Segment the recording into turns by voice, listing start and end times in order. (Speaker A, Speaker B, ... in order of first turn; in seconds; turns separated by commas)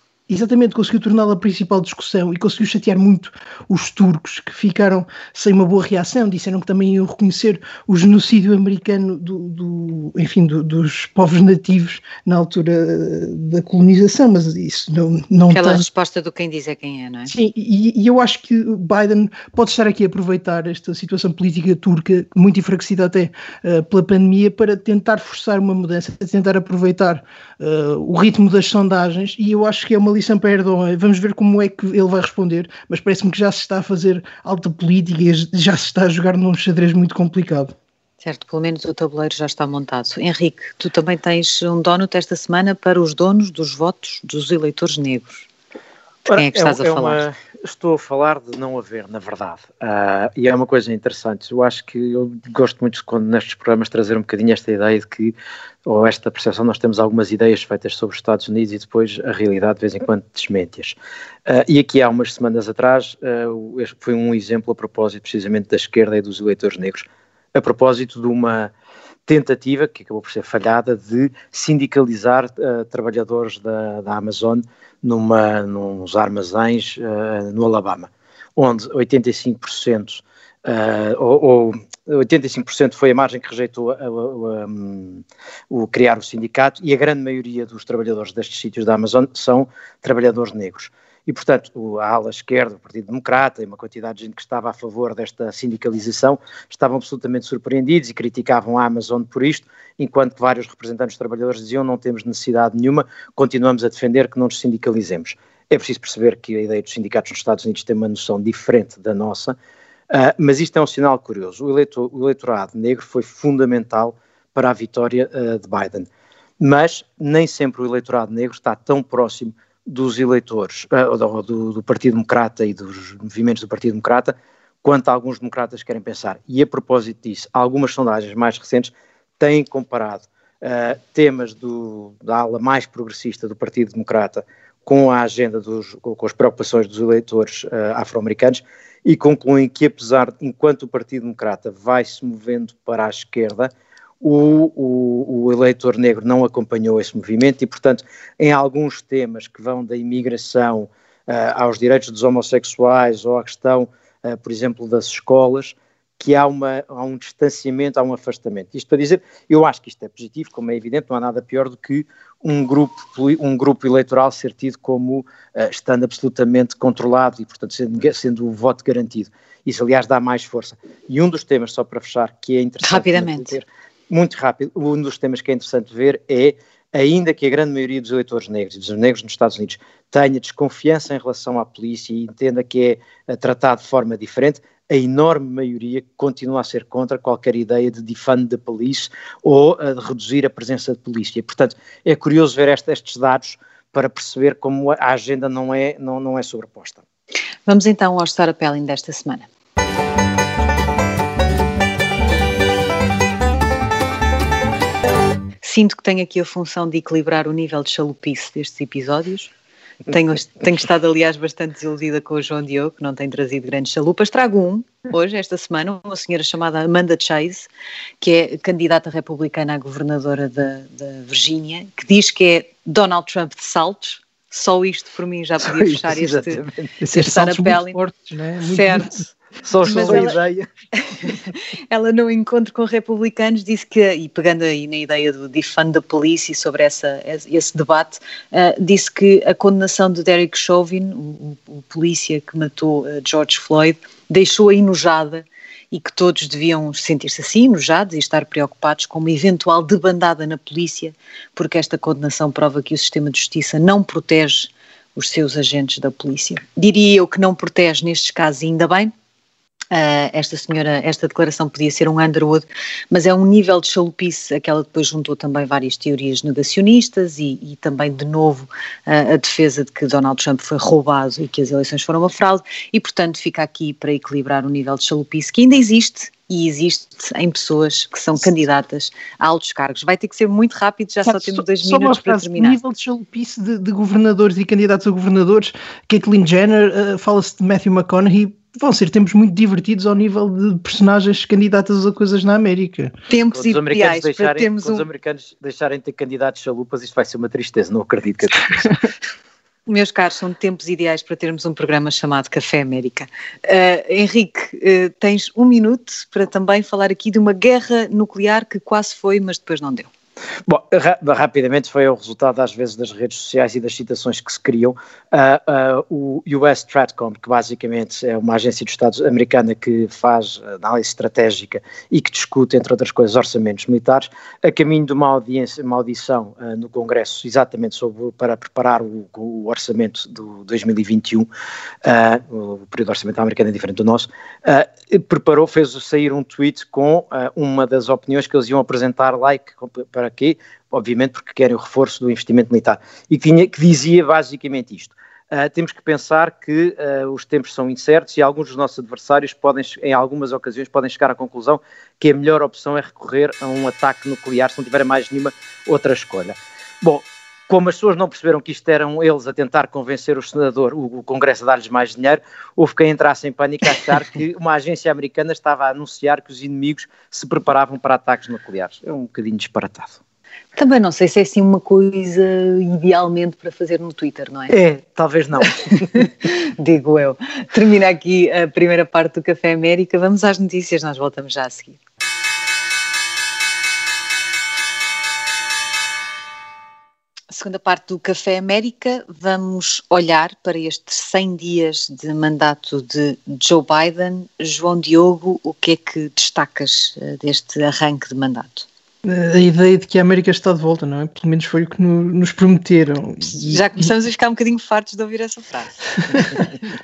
Speaker A: 0.3-15.9, Speaker B: 15.5-17.3, Speaker A: 17.3-37.7, Speaker B: 38.2-45.5, Speaker C: 46.3-55.4, Speaker B: 46.3-47.2, Speaker C: 55.9-68.7, Speaker C: 69.3-109.6, Speaker C: 110.1-116.1, Speaker C: 116.6-197.0, Speaker B: 172.8-173.6, Speaker B: 197.7-199.5, Speaker B: 205.6-209.5, Speaker B: 210.1-217.7, Speaker B: 218.2-228.0, Speaker C: 225.8-226.9, Speaker A: 227.0-229.3, Speaker B: 228.6-229.3, Speaker C: 229.6-230.7, Speaker A: 229.8-230.4, Speaker B: 229.9-230.3, Speaker B: 231.0-259.1, Speaker B: 259.9-282.8, Speaker A: 281.2-293.1, Speaker B: 293.3-295.1, Speaker C: 293.5-299.1, Speaker B: 299.9-310.1, Speaker C: 310.7-331.5, Speaker C: 332.0-370.2, Speaker B: 370.8-374.8, Speaker C: 374.7-376.3, Speaker B: 375.9-382.0, Speaker B: 387.5-398.9, Speaker A: 399.2-404.1, Speaker B: 403.5-406.7